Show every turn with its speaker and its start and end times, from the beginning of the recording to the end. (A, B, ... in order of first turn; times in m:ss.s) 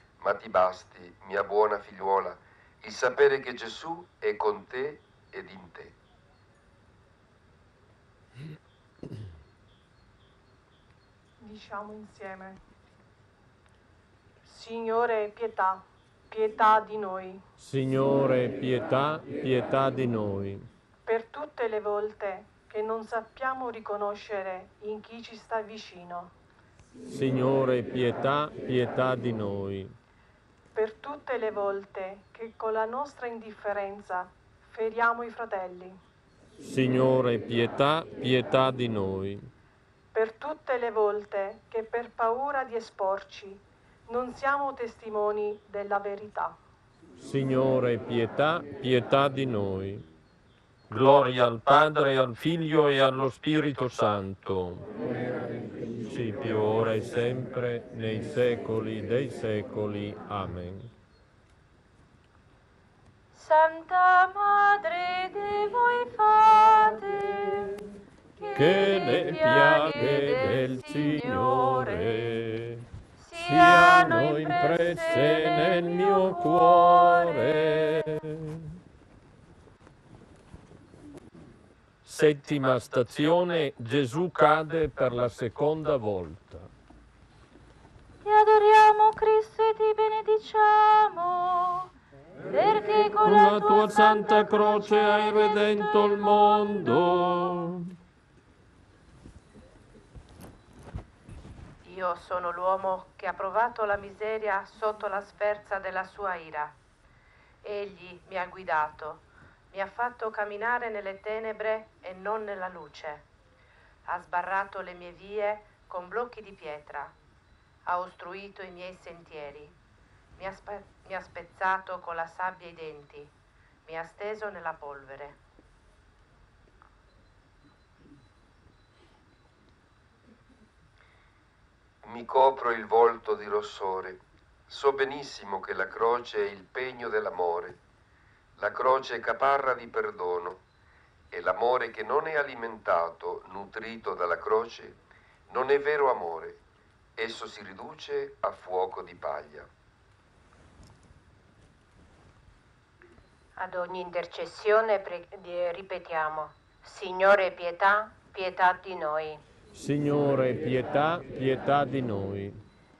0:00.2-0:05.9 A
0:11.4-0:12.6 B
0:14.4-0:17.4 B
0:17.6-0:20.7 C
0:21.0-0:26.3 B
0:27.1-0:29.9 C
0:30.7-0:36.0 B
0:36.6-0:39.5 C
0:40.1-0:46.6 B
0:47.2-0:50.0 C
0:50.9-0:54.8 C
0:56.0-1:00.9 C
1:03.3-1:07.7 D
1:08.4-1:12.2 D
1:08.5-1:18.6 C
1:13.2-1:17.6 D
1:22.0-1:26.7 C
1:28.2-1:31.9 D
1:32.5-1:36.3 D
1:33.2-1:37.9 C
1:41.8-1:46.8 E
1:47.6-1:53.2 E
1:54.0-1:57.1 E
1:57.8-1:59.8 E
2:00.4-2:03.3 E
2:03.8-2:05.4 E
2:12.0-2:17.8 A
2:18.6-2:20.6 A
2:21.3-2:26.6 A
2:27.2-2:29.7 A
2:33.6-2:39.4 F
2:39.7-2:42.6 C